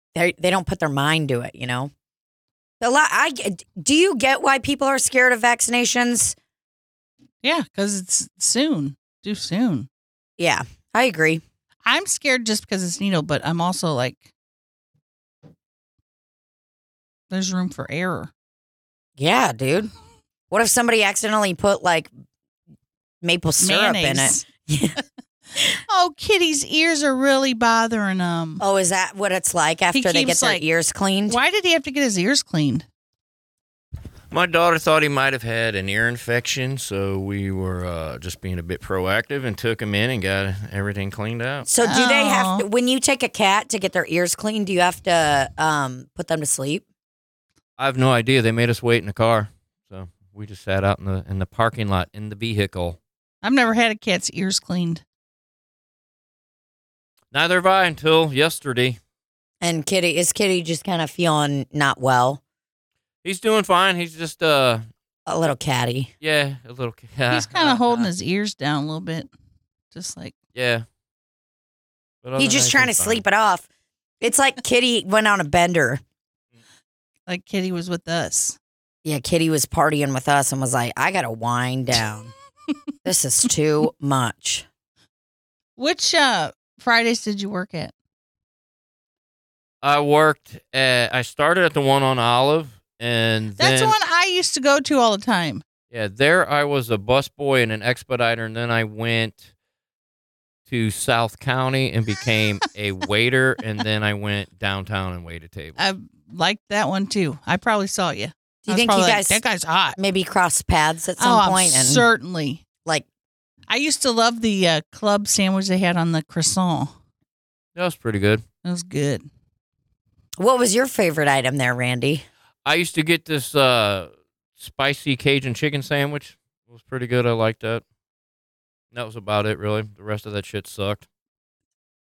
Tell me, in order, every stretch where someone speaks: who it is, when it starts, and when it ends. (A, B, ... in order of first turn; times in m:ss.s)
0:00.1-0:01.9 A
0:02.8-0:06.4 A
0:07.4-0:09.9 B
0:10.4-0:11.4 A
0:11.8-0:14.3 B
0:17.3-0:18.3 B
0:19.2-0:19.9 A
0:20.5-0:22.1 A
0:23.2-0:25.0 A
0:23.6-0:24.4 B
0:25.8-0:28.6 B
0:28.6-0:31.4 A
0:29.9-0:30.6 B
0:31.3-0:32.8 B
0:34.3-0:41.7 C
0:41.7-0:46.8 A
0:41.8-0:42.6 B
0:47.8-0:53.0 C
0:53.4-0:55.0 B
0:57.3-0:59.0 C
0:59.6-1:02.4 A
1:03.2-1:04.9 C
1:05.3-1:06.1 A
1:06.2-1:08.1 C
1:07.3-1:09.3 B
1:09.9-1:10.3 B
1:10.5-1:10.8 C
1:12.2-1:13.2 C
1:12.4-1:13.6 A
1:14.2-1:16.0 A
1:17.3-1:18.6 B
1:19.0-1:22.3 A
1:23.0-1:24.6 A
1:25.8-1:27.9 B
1:29.8-1:33.9 C
1:33.6-1:35.6 B
1:35.9-1:39.4 C
1:40.7-1:45.8 C
1:45.8-1:50.0 B
1:48.6-1:49.4 A
1:50.0-1:52.0 A
1:51.2-1:52.6 B
1:53.7-1:56.9 B
1:57.8-1:58.4 C
1:58.6-1:59.2 B
2:00.4-2:02.2 A
2:02.6-2:07.8 C
2:08.9-2:11.0 C